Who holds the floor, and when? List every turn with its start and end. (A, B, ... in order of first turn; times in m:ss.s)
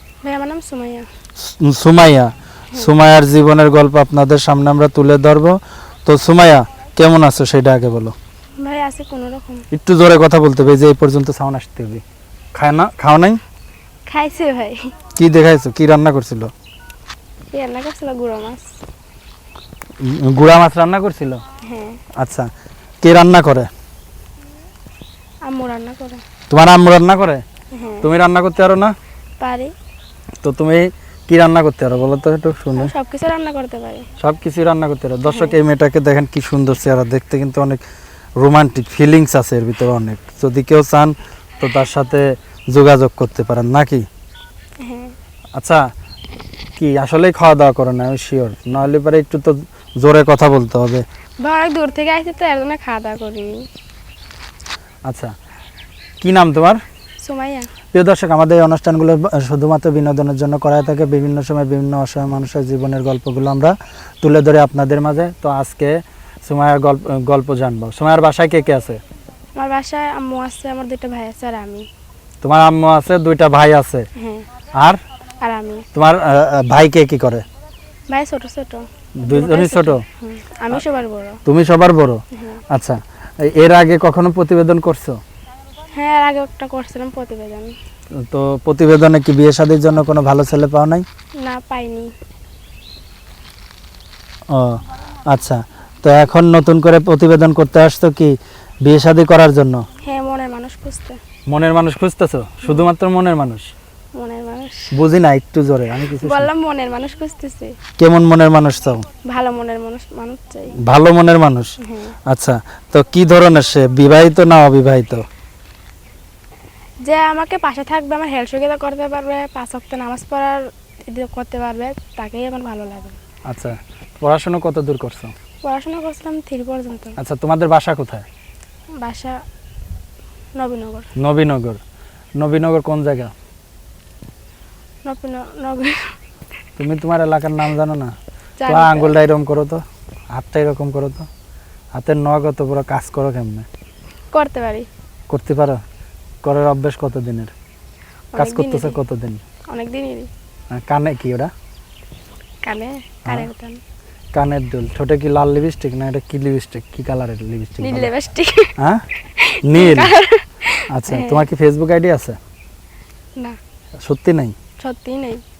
0:00.2-0:01.1 A
0:01.4-0:08.1 B
0:08.6-0:09.6 A
0:09.7-0:12.0 B
0:12.5-0:13.4 B
0:14.1-0:14.9 A
0:15.2-0:16.5 B
0:17.5-0:18.7 A
0:20.0-0:21.4 B
0:21.6-0:22.0 A
0:22.2-0:22.5 B
0:23.0-0:23.7 B
0:25.4-0:26.2 A
0:26.5-0:27.4 B
0:27.7-0:28.1 A
0:28.0-0:28.9 B
0:29.4-0:29.7 A
0:30.4-0:32.9 B
0:32.7-0:34.1 A
0:34.2-0:37.8 B
0:35.3-0:35.6 A
0:38.4-0:44.0 B
0:44.8-0:45.2 A
0:45.6-0:45.9 B
0:46.8-0:51.0 B
0:51.4-0:53.7 A
0:55.1-0:55.3 B
0:56.2-0:56.8 B
0:57.2-0:57.7 A
0:57.9-1:09.0 B
1:09.6-1:11.9 A
1:12.4-1:14.1 B
1:14.2-1:14.4 A
1:15.4-1:15.8 A
1:15.9-1:17.4 B
1:18.1-1:21.4 A
1:19.2-1:20.0 B
1:21.4-1:25.2 B
1:22.3-1:22.6 A
1:25.9-1:27.7 A
1:28.2-1:31.0 B
1:31.4-1:32.1 A
1:34.5-1:39.9 B
1:40.0-1:41.2 A
1:41.5-1:43.7 B
1:44.1-1:44.9 A
1:44.9-1:46.5 B
1:46.2-1:47.8 A
1:48.0-1:49.0 B
1:49.2-1:50.8 A
1:50.8-1:51.7 B
1:51.8-1:52.1 A
1:52.3-1:55.2 B
1:57.0-2:03.2 A
2:03.5-2:05.3 B
2:05.6-2:07.2 A
2:07.2-2:08.3 B
2:09.0-2:09.4 A
2:10.6-2:11.1 A
2:11.2-2:11.8 B
2:12.4-2:13.3 B
2:15.0-2:16.2 A
2:16.8-2:18.1 B
2:18.6-2:19.1 A
2:18.7-2:21.3 B
2:21.9-2:23.7 B
2:24.3-2:24.9 A
2:25.3-2:25.8 B
2:26.4-2:27.5 B
2:28.3-2:29.0 A
2:28.4-2:29.4 B
2:29.7-2:30.3 A
2:30.7-2:31.5 B
2:32.6-2:33.8 A
2:34.3-2:38.1 B
2:37.8-2:38.7 A
2:38.8-2:39.0 B
2:39.3-2:41.4 A
2:39.6-2:40.1 B
2:40.9-2:42.4 B
2:44.0-2:44.5 B
2:44.8-2:45.4 A